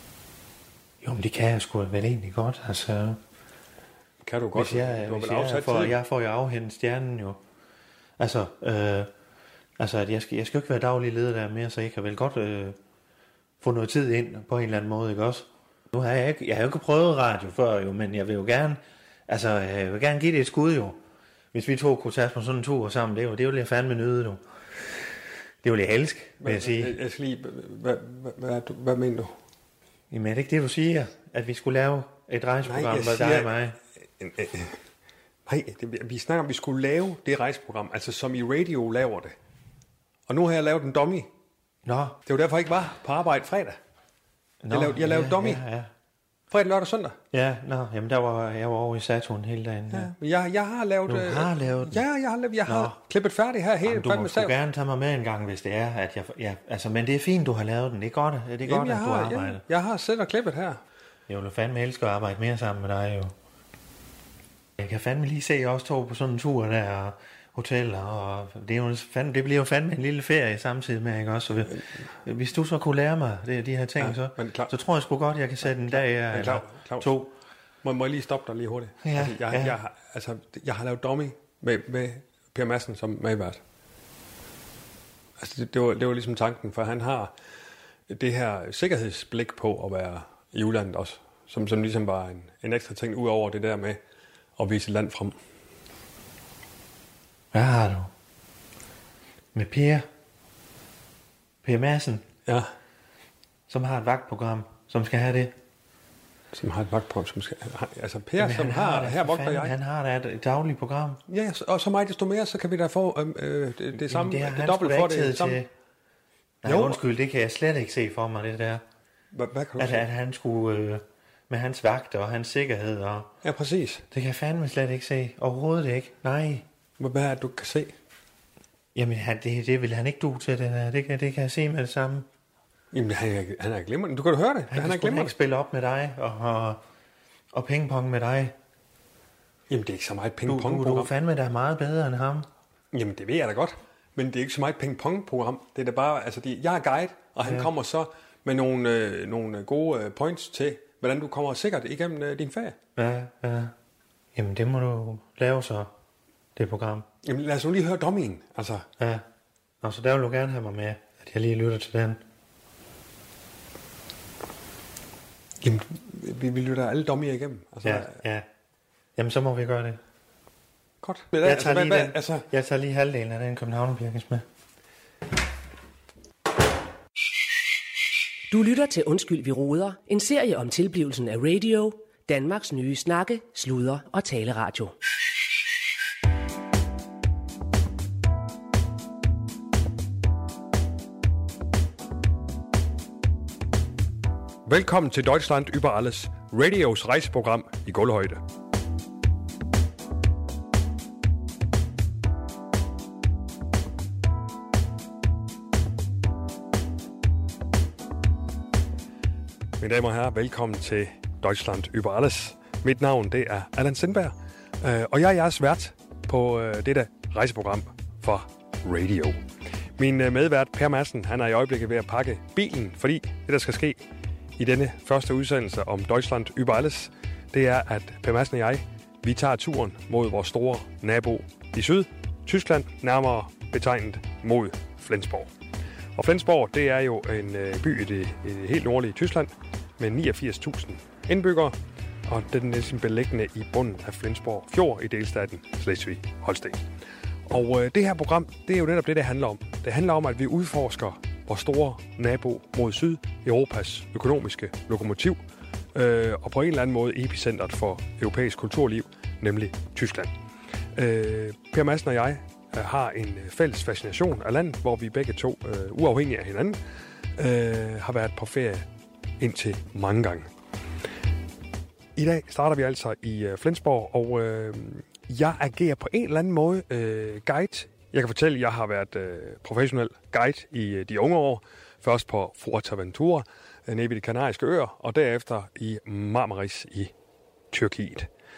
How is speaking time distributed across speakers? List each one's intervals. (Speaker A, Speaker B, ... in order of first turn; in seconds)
Speaker A: 1.0-3.2, 4.5-7.4, 8.2-9.1, 9.8-12.8, 13.6-21.0, 21.5-24.4, 25.6-27.0, 30.1-33.8, 41.8-42.2, 44.6-45.9, 47.3-50.1, 51.1-52.0, 52.6-53.0, 53.9-59.6, 61.3-63.3, 64.8-77.3, 79.0-79.8, 97.5-98.1, 99.5-100.0, 101.6-102.2, 103.7-105.5, 108.4-111.2, 113.9-115.7, 116.6-118.8, 119.8-123.3, 124.1-126.6, 128.9-132.2, 134.7-136.8, 137.5-138.5, 140.4-142.5, 153.0-153.7, 154.3-155.9, 156.6-157.1, 159.0-159.2, 159.8-162.2, 167.8-168.4, 169.2-170.0, 171.4-174.4
Speaker B: 4.2-6.0, 26.4-29.3, 32.6-33.5, 34.2-34.8, 35.5-39.4, 40.3-41.3, 42.3-43.8, 44.7-45.6, 46.5-47.2, 49.9-54.5, 58.6-60.8, 74.0-74.7, 75.6-77.1, 77.8-83.6, 85.4-87.3, 88.1-94.0, 94.6-95.3, 106.5-109.8, 111.3-115.6, 116.6-117.0, 119.3-120.0, 123.4-124.0, 127.0-127.9, 132.9-135.3, 139.7-141.1, 142.9-152.8, 157.2-158.8, 165.6-168.2, 171.0-172.4, 194.7-198.4, 209.8-219.4, 220.0-224.0, 224.6-235.5, 236.2-241.8, 242.3-246.8, 247.5-255.4, 255.9-260.3, 260.9-266.8, 267.4-268.9, 269.4-270.5, 272.1-287.1, 287.7-288.3
Speaker C: 178.5-184.9